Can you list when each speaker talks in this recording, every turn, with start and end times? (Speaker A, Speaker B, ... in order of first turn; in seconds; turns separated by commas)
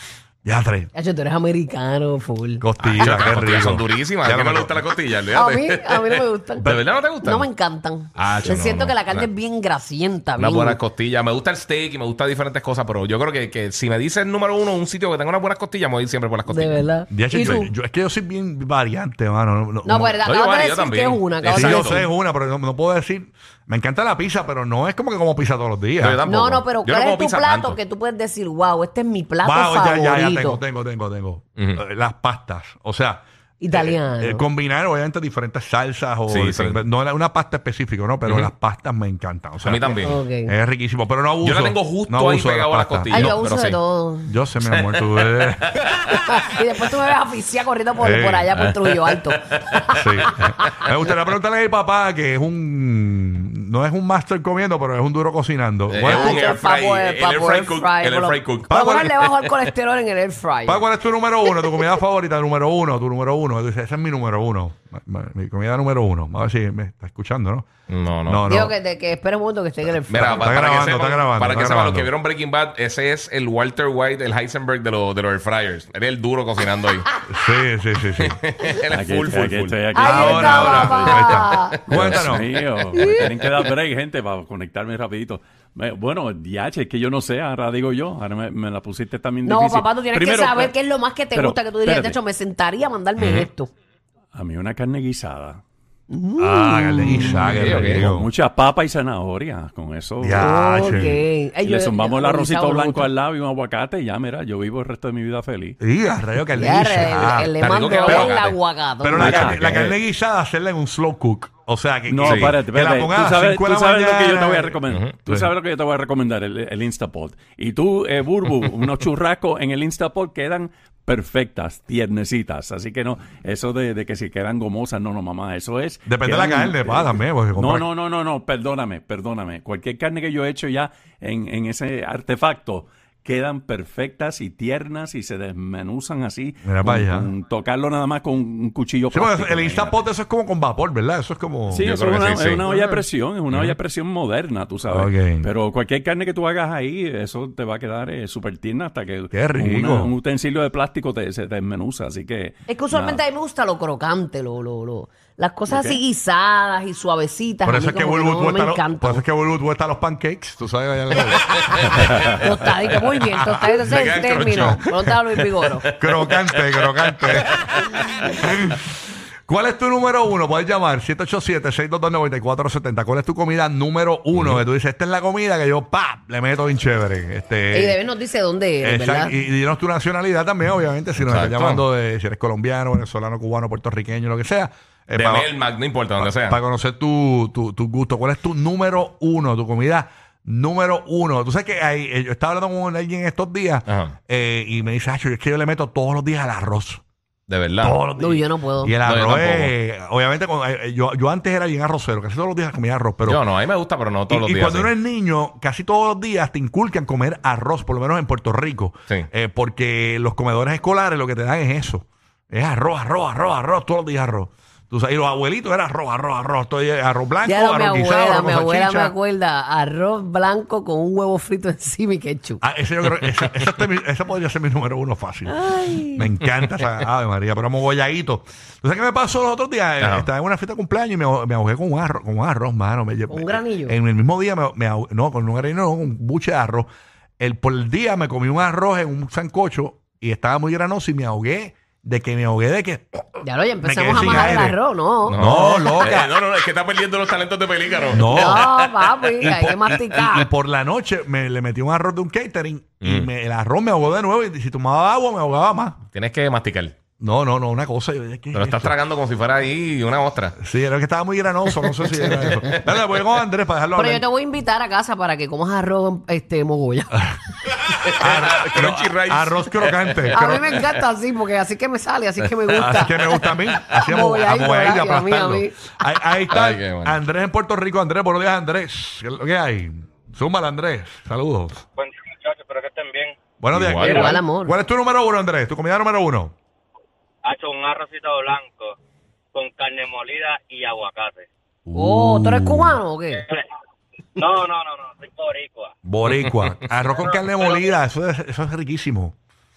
Speaker A: 0.5-0.9, Speaker B: 0.9-2.7, Speaker A: 2.6-4.8, Speaker C: 2.8-7.5, Speaker B: 5.3-6.7, Speaker A: 6.6-6.9, Speaker B: 7.2-10.8, Speaker C: 8.2-9.3, Speaker C: 10.4-16.8, Speaker B: 16.5-17.7, Speaker A: 17.1-20.2, Speaker B: 19.9-22.1, Speaker C: 20.2-22.0, Speaker A: 21.5-26.2, Speaker C: 26.0-27.8, Speaker B: 26.3-30.6, Speaker A: 29.4-43.4, Speaker B: 33.6-34.5, Speaker C: 36.3-36.8, Speaker C: 38.2-38.5, Speaker C: 39.6-40.2, Speaker B: 40.0-40.5, Speaker C: 41.4-43.8, Speaker B: 43.1-44.3, Speaker A: 44.3-45.7, Speaker C: 44.8-46.0, Speaker B: 46.1-50.5, Speaker A: 48.0-48.5, Speaker C: 48.6-49.3, Speaker A: 50.0-56.5, Speaker C: 55.9-59.5, Speaker B: 56.1-60.9, Speaker A: 60.7-67.7, Speaker C: 67.9-68.5, Speaker A: 68.3-68.8, Speaker B: 68.5-70.5, Speaker C: 70.1-77.1, Speaker A: 70.2-72.1, Speaker B: 77.1-77.5, Speaker A: 77.3-78.4, Speaker C: 78.2-79.8, Speaker D: 78.9-81.0, Speaker B: 79.9-81.8, Speaker A: 80.0-82.5, Speaker C: 81.3-82.5, Speaker D: 81.9-90.8, Speaker B: 82.9-83.3, Speaker B: 89.4-93.7, Speaker D: 91.3-92.2, Speaker C: 93.2-93.5, Speaker D: 94.3-95.6, Speaker B: 96.1-97.5, Speaker A: 96.4-98.3, Speaker D: 97.2-101.1, Speaker C: 97.5-98.1, Speaker A: 100.2-101.2, Speaker B: 100.4-103.1, Speaker D: 101.6-105.8, Speaker A: 105.8-108.4, Speaker B: 106.6-109.5, Speaker C: 107.6-108.6, Speaker A: 109.0-115.5, Speaker D: 109.2-110.0, Speaker C: 109.2-109.6, Speaker D: 112.1-140.0, Speaker C: 112.2-112.6, Speaker C: 114.9-115.2, Speaker A: 126.0-127.9, Speaker A: 136.6-137.3, Speaker A: 139.1-141.8, Speaker D: 141.7-153.2, Speaker C: 141.8-143.8, Speaker A: 144.9-145.5, Speaker A: 149.3-150.1, Speaker B: 152.7-159.2, Speaker D: 155.7-156.0, Speaker A: 157.7-161.9, Speaker B: 162.4-165.9, Speaker A: 163.4-165.1, Speaker C: 163.8-164.8, Speaker C: 165.9-166.5, Speaker A: 165.9-167.6, Speaker C: 167.6-168.1, Speaker A: 168.3-178.0, Speaker C: 174.3-174.6, Speaker B: 177.7-179.4, Speaker A: 178.8-185.5, Speaker C: 181.2-181.8, Speaker C: 185.2-186.6, Speaker A: 186.2-197.0, Speaker C: 193.9-194.2, Speaker C: 197.5-198.0, Speaker A: 197.8-203.4, Speaker B: 198.2-198.9, Speaker C: 199.1-199.7, Speaker C: 203.3-204.9, Speaker A: 204.3-219.2, Speaker B: 217.4-222.6, Speaker A: 222.6-225.6, Speaker B: 225.5-226.3, Speaker A: 226.2-236.9, Speaker C: 230.0-230.3, Speaker B: 233.3-233.9, Speaker A: 237.4-246.4, Speaker B: 243.4-246.1, Speaker C: 245.3-248.9, Speaker A: 248.1-248.7, Speaker B: 248.2-250.5, Speaker A: 249.4-256.0, Speaker C: 253.0-253.3, Speaker C: 256.1-257.0, Speaker A: 257.2-259.0, Speaker C: 258.5-260.6, Speaker A: 260.6-264.2, Speaker C: 262.2-262.7, Speaker B: 263.9-267.2, Speaker C: 268.0-270.8, Speaker A: 268.2-270.7, Speaker B: 270.3-276.1, Speaker A: 272.7-281.8, Speaker C: 276.5-277.2, Speaker E: 282.0-283.4, Speaker A: 283.6-286.5, Speaker C: 283.7-284.4, Speaker B: 284.0-284.8, Speaker E: 287.4-289.0, Speaker E: 289.5-291.5, Speaker A: 291.9-293.0, Speaker B: 291.9-293.4, Speaker E: 293.4-293.6, Speaker E: 294.4-295.9, Speaker A: 296.0-299.3, Speaker E: 297.2-297.9